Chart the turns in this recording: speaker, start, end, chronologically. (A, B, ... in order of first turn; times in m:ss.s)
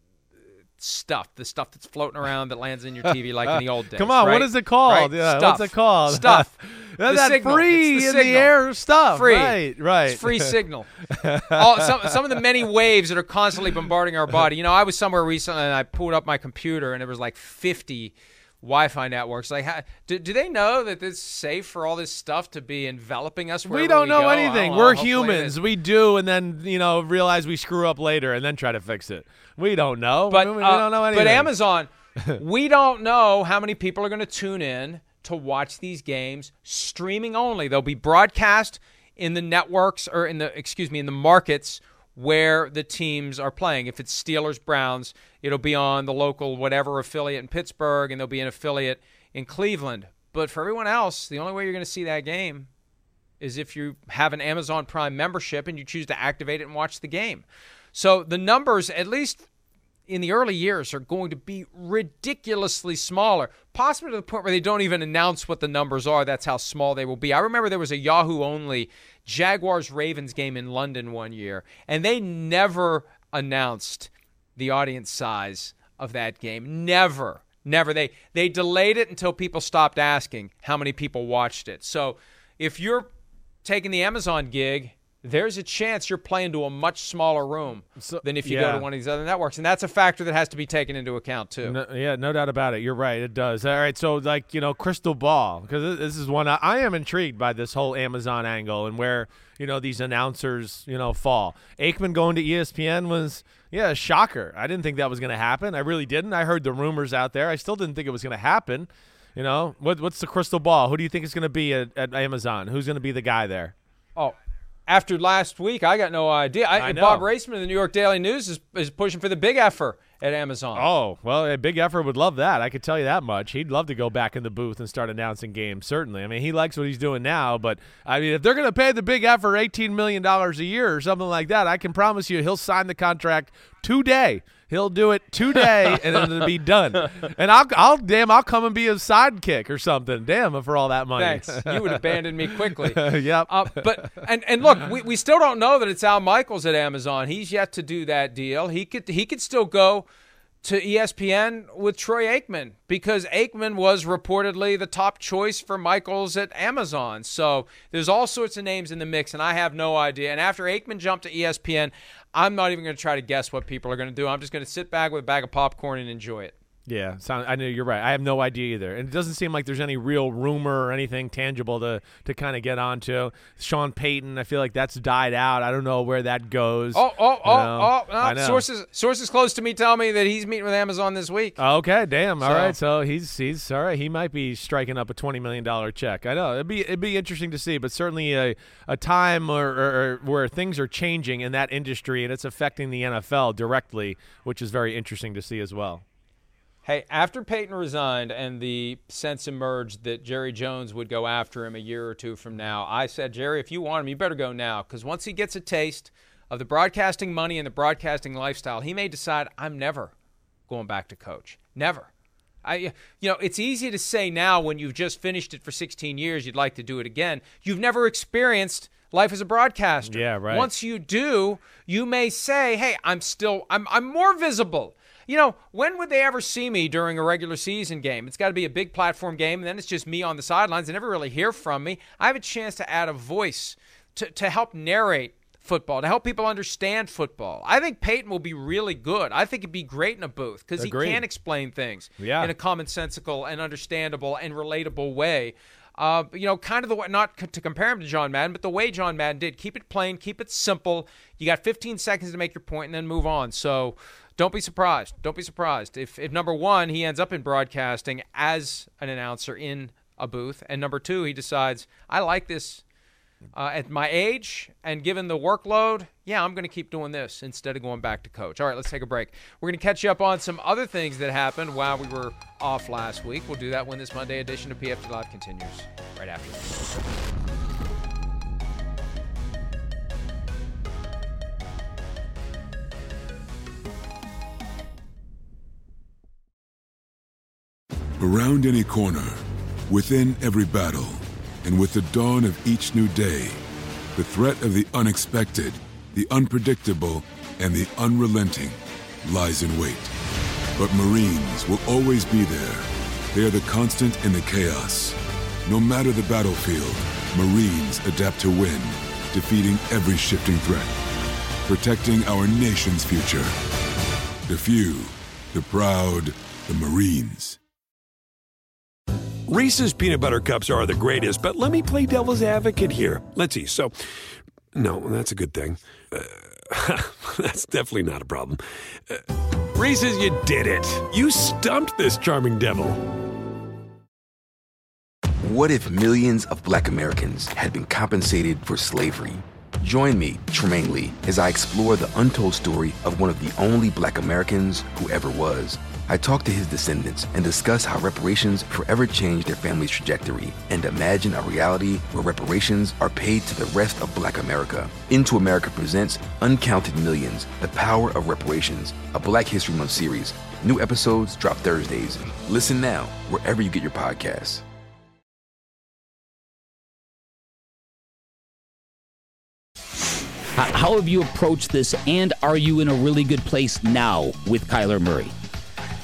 0:00.8-0:06.5 A
0:03.9-0:10.5 B
0:07.0-0:08.5 A
0:09.1-0:25.6 A
0:11.1-0:11.9 B
0:23.7-0:31.5 B
0:30.3-0:52.7 A
0:53.4-0:59.4 A
1:00.1-1:23.1 A
1:23.6-1:31.8 A
1:28.0-1:28.9 B
1:31.6-1:53.7 B
1:54.9-2:00.9 A
1:56.7-1:57.2 B
2:00.7-2:24.2 B
2:15.9-2:16.2 A
2:21.2-2:30.0 A
2:30.6-2:46.5 A
2:46.8-2:58.6 B
2:56.9-3:01.6 A
3:01.6-3:16.0 B
3:02.4-3:02.8 A
3:16.8-3:30.1 A
3:30.7-3:32.1 A
3:32.6-4:22.8 A
3:40.0-3:40.7 B
4:00.8-4:01.2 B
4:02.2-4:02.5 B
4:23.5-4:36.6 A
4:48.2-4:53.6 C
4:54.1-5:00.1 C
5:00.8-5:10.9 C
5:11.6-5:13.5 C
5:14.4-5:17.6 C
5:19.5-5:24.0 D
5:24.7-5:33.0 D
5:35.4-6:04.6 E
6:10.5-6:15.3 F